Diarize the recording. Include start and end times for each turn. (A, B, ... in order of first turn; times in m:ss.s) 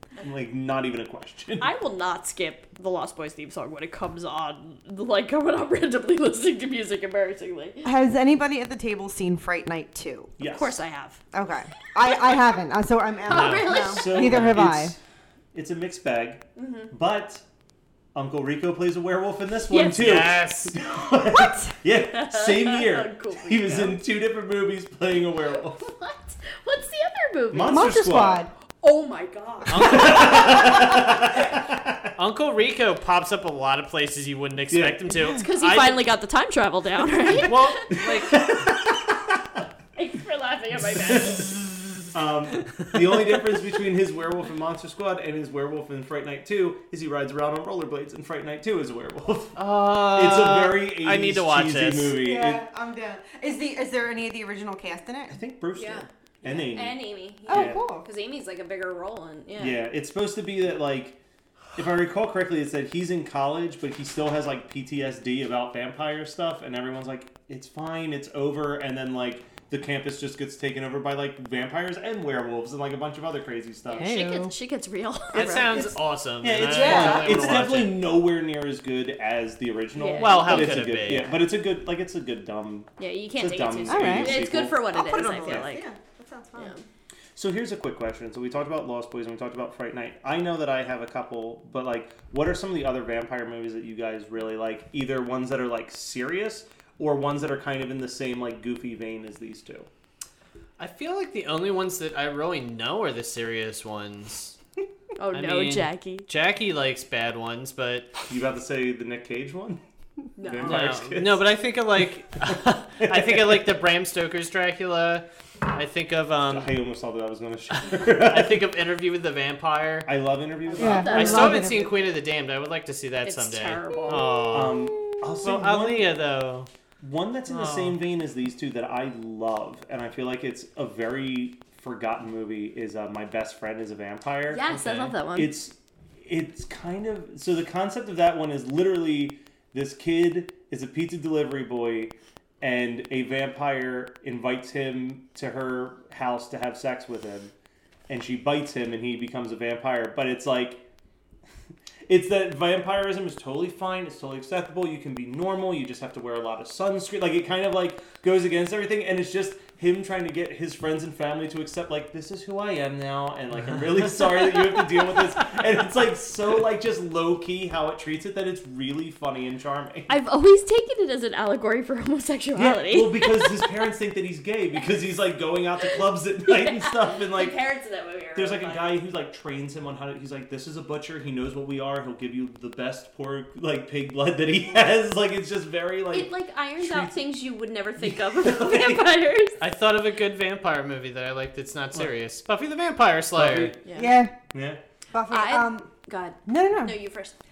0:00.2-0:01.7 A
0:01.6-0:07.8 B
0:07.8-0:10.3 C
0:10.4-0:10.8 A
0:10.4-0:11.2 B
0:11.3-0:15.0 C
0:13.3-0:14.4 B
0:13.3-0:14.6 D
0:13.8-0:15.0 A
0:15.5-0:17.4 A
0:16.6-0:16.9 B
0:18.1-0:25.8 A
0:19.7-0:20.1 B
0:19.9-0:20.7 D
0:21.2-0:21.7 C
0:22.0-0:24.0 B
0:25.8-0:28.0 B
0:27.5-0:28.4 A
0:27.6-0:28.5 C
0:28.8-0:31.0 B
0:29.7-0:30.6 D
0:29.7-0:32.1 A
0:32.2-0:36.0 D
0:34.7-0:35.4 A
0:35.3-0:37.9 B
0:37.4-0:38.4 D
0:37.9-0:39.6 A
0:40.0-0:41.5 B
0:40.8-0:41.6 A
0:42.1-0:52.6 A
0:49.6-0:52.2 D
0:52.2-0:55.4 C
0:55.3-0:57.8 A
0:55.8-0:59.8 B
0:57.4-0:58.0 C
0:59.6-1:01.2 A
1:01.8-1:14.1 A
1:13.9-1:15.9 B
1:13.9-1:14.5 C
1:15.3-1:18.0 D
1:16.4-1:24.9 A
1:16.8-1:17.4 B
1:16.9-1:17.2 C
1:19.9-1:20.7 B
1:20.2-1:21.4 D
1:23.0-1:25.8 B
1:23.9-1:26.7 C
1:25.4-1:25.7 A
1:26.6-1:26.8 B
1:27.4-1:39.9 A
1:40.8-1:44.6 D
1:45.2-1:46.2 B
1:45.3-1:48.1 D
1:48.3-1:49.8 A
1:50.4-1:50.8 B
1:50.4-1:51.4 A
1:50.6-1:56.7 D
1:52.5-1:53.7 A
1:56.5-1:58.6 A
1:57.8-2:00.1 D
2:00.0-2:01.6 A
2:00.7-2:01.8 B
2:00.7-2:01.9 C
2:01.1-2:06.7 D
2:03.2-2:04.3 B
2:04.5-2:06.1 A
2:07.0-2:14.7 A
2:07.5-2:08.0 D
2:14.5-2:15.6 B
2:14.7-2:15.1 D
2:15.3-2:27.5 A
2:28.1-2:30.8 A
2:32.1-2:50.1 A
2:50.1-2:53.7 B
2:52.6-2:57.6 A
2:56.5-2:59.0 B
2:58.3-3:07.3 A
3:06.1-3:09.6 B
3:08.0-3:09.2 A
3:09.6-3:13.7 D
3:13.3-3:13.8 A
3:13.8-3:14.1 B
3:13.9-3:14.3 C
3:14.5-3:14.8 A
3:15.1-3:15.9 C
3:15.3-3:17.4 B
3:16.4-3:17.0 C